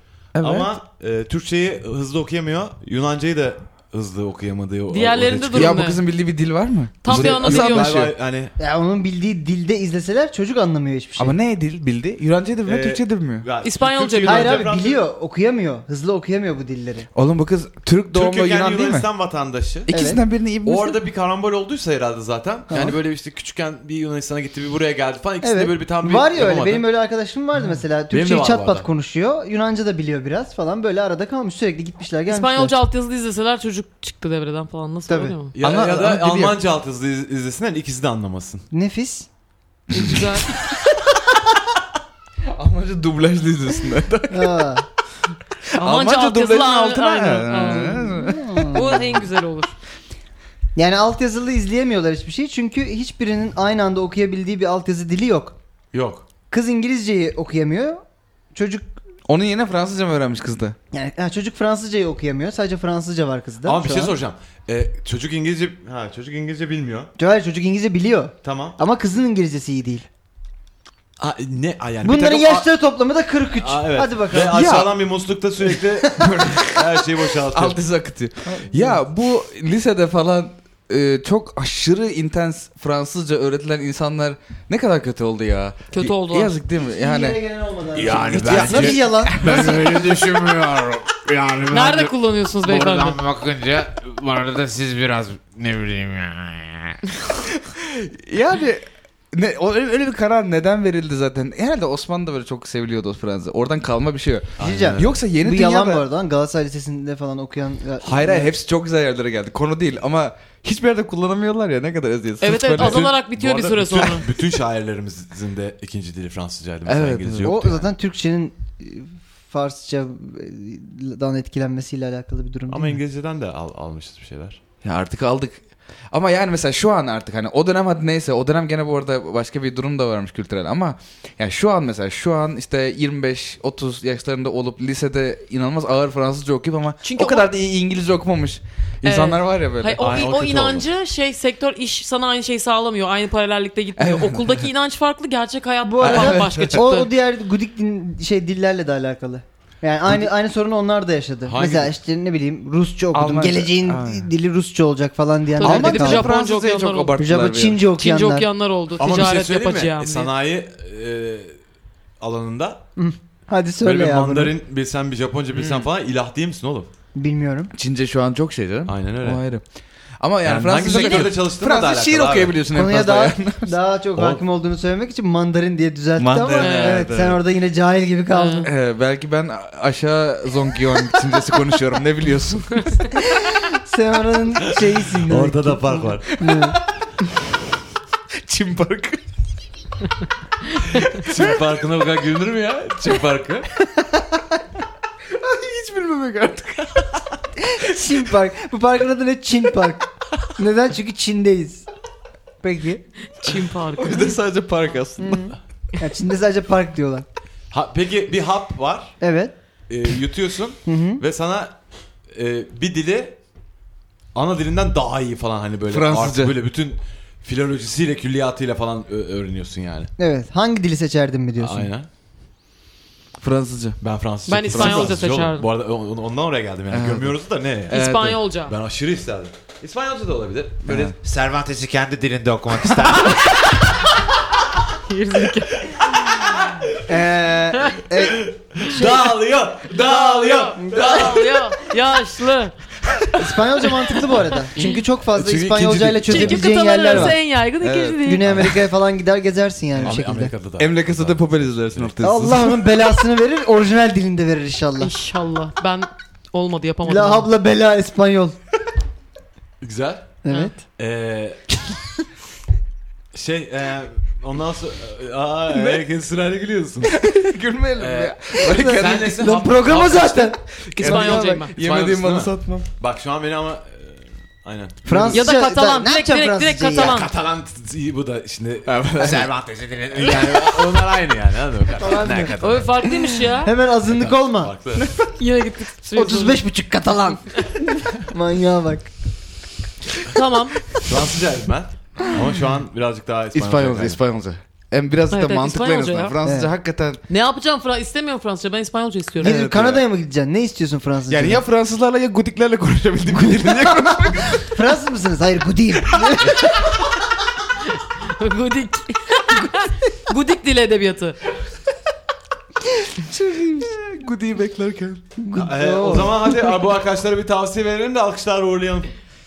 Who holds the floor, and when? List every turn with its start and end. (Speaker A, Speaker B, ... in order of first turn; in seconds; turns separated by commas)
Speaker A: 0.3-0.7, Speaker B: 0.4-5.8, Speaker C: 4.9-6.0, Speaker A: 5.5-8.1, Speaker C: 7.0-7.9, Speaker B: 7.1-8.5, Speaker D: 8.6-11.3, Speaker A: 11.2-13.4, Speaker B: 12.7-15.0, Speaker C: 13.6-14.6, Speaker D: 14.2-17.1, Speaker A: 17.1-19.1, Speaker B: 18.1-19.9, Speaker A: 19.9-21.0, Speaker D: 19.9-20.2, Speaker B: 20.6-26.8, Speaker D: 22.7-23.0, Speaker D: 25.4-32.7, Speaker B: 28.1-28.9, Speaker C: 32.3-35.5, Speaker D: 35.1-35.3, Speaker B: 35.5-38.6, Speaker A: 35.6-36.6, Speaker D: 38.7-39.3, Speaker C: 39.9-40.5, Speaker A: 42.4-44.7, Speaker D: 44.3-44.9, Speaker A: 45.7-48.7, Speaker C: 45.8-49.7, Speaker D: 47.6-49.1, Speaker D: 50.8-55.5, Speaker B: 55.9-56.2, Speaker D: 56.5-58.0, Speaker D: 58.5-58.9, Speaker A: 59.3-60.8, Speaker D: 60.9-64.1, Speaker B: 63.6-67.1, Speaker D: 67.2-70.0, Speaker B: 68.4-68.8, Speaker B: 71.2-72.7, Speaker D: 72.0-74.7, Speaker B: 73.5-77.8, Speaker A: 74.5-74.9, Speaker A: 76.2-87.4, Speaker D: 78.5-79.0, Speaker C: 85.9-86.6, Speaker D: 86.8-90.1, Speaker E: 87.9-97.0, Speaker A: 88.1-89.8, Speaker C: 91.7-93.2, Speaker A: 97.5-106.0, Speaker B: 104.6-105.1, Speaker D: 104.6-108.5, Speaker A: 108.0-113.1, Speaker C: 112.4-114.3, Speaker B: 112.7-117.9, Speaker A: 116.8-117.6, Speaker D: 117.4-123.0, Speaker B: 122.7-124.6, Speaker A: 124.8-140.1, Speaker C: 137.0-137.4, Speaker C: 139.0-147.1, Speaker B: 140.0-140.8, Speaker A: 144.0-144.6, Speaker D: 145.8-156.3, Speaker A: 146.0-146.8, Speaker B: 151.4-151.9, Speaker A: 153.1-154.3, Speaker C: 155.6-157.2, Speaker A: 155.6-157.8, Speaker D: 157.2-158.5, Speaker C: 157.9-160.3, Speaker B: 159.0-161.6, Speaker B: 162.2-162.8, Speaker D: 162.9-164.5, Speaker B: 163.8-166.9, Speaker A: 165.5-165.9, Speaker D: 167.1-167.7, Speaker A: 167.7-169.6, Speaker B: 168.9-169.4, Speaker A: 170.2-173.7, Speaker B: 170.4-172.6, Speaker C: 170.9-171.2, Speaker D: 172.7-178.7, Speaker B: 174.1-174.4, Speaker A: 176.2-177.4, Speaker C: 176.6-177.1, Speaker C: 178.3-178.7, Speaker A: 178.6-182.9, Speaker D: 183.2-186.8, Speaker B: 185.1-186.3, Speaker A: 186.4-186.8, Speaker A: 188.4-189.2, Speaker A: 191.0-191.6, Speaker B: 191.0-193.7, Speaker A: 195.3-197.3, Speaker D: 197.6-201.8, Speaker A: 197.9-198.3, Speaker D: 202.6-203.0, Speaker C: 203.4-204.3, Speaker A: 203.9-205.5, Speaker D: 205.2-207.2, Speaker B: 207.7-209.2, Speaker D: 209.2-209.5, Speaker B: 209.9-211.7, Speaker D: 210.8-211.2, Speaker B: 212.3-213.4, Speaker B: 214.3-220.1, Speaker A: 215.9-216.6, Speaker D: 220.2-221.9, Speaker B: 221.6-222.1, Speaker A: 223.4-224.0, Speaker B: 224.0-231.1, Speaker C: 224.5-225.7, Speaker A: 224.7-225.2, Speaker A: 226.9-227.3, Speaker A: 227.9-228.4, Speaker C: 227.9-228.7, Speaker A: 230.8-231.1, Speaker E: 231.2-233.6, Speaker C: 235.1-236.6, Speaker B: 235.8-237.0, Speaker D: 237.1-239.2, Speaker C: 237.8-238.0, Speaker B: 238.2-241.7, Speaker C: 239.9-242.7, Speaker D: 240.8-241.3, Speaker D: 243.3-247.4, Speaker C: 244.7-245.0, Speaker B: 245.3-247.2, Speaker C: 246.3-248.5, Speaker A: 247.8-248.2, Speaker D: 248.2-250.5, Speaker B: 248.4-248.8, Speaker B: 250.0-252.1, Speaker A: 250.8-252.9, Speaker D: 252.2-255.1, Speaker C: 255.0-257.5, Speaker D: 257.1-258.6, Speaker B: 259.8-260.4, Speaker D: 260.4-260.8, Speaker B: 261.0-261.6, Speaker B: 263.3-267.2, Speaker A: 265.7-266.0, Speaker A: 267.0-269.4, Speaker B: 268.0-270.5, Speaker D: 268.6-271.6, Speaker A: 270.8-272.9, Speaker C: 270.9-271.7, Speaker B: 271.8-275.3, Speaker A: 275.1-275.5, Speaker D: 275.1-277.3, Speaker C: 275.3-277.3, Speaker B: 277.0-279.5, Speaker A: 278.9-279.5, Speaker E: 279.2-281.0, Speaker B: 280.1-282.8, Speaker D: 282.0-282.6, Speaker E: 282.4-282.9, Speaker C: 282.6-283.7, Speaker D: 283.6-284.7, Speaker B: 284.1-285.1, Speaker C: 285.3-286.6, Speaker D: 286.1-289.1, Speaker C: 290.3-290.8, Speaker B: 291.0-294.2, Speaker A: 293.5-297.2, Speaker C: 295.3-296.4, Speaker D: 296.4-296.7, Speaker C: 297.3-299.6, Speaker D: 299.4-301.6, Speaker A: 299.4-300.0, Speaker A: 301.3-304.6, Speaker D: 303.5-306.9, Speaker A: 306.2-306.5, Speaker C: 307.9-311.4, Speaker A: 313.2-315.2, Speaker D: 315.4-316.6, Speaker B: 315.5-319.1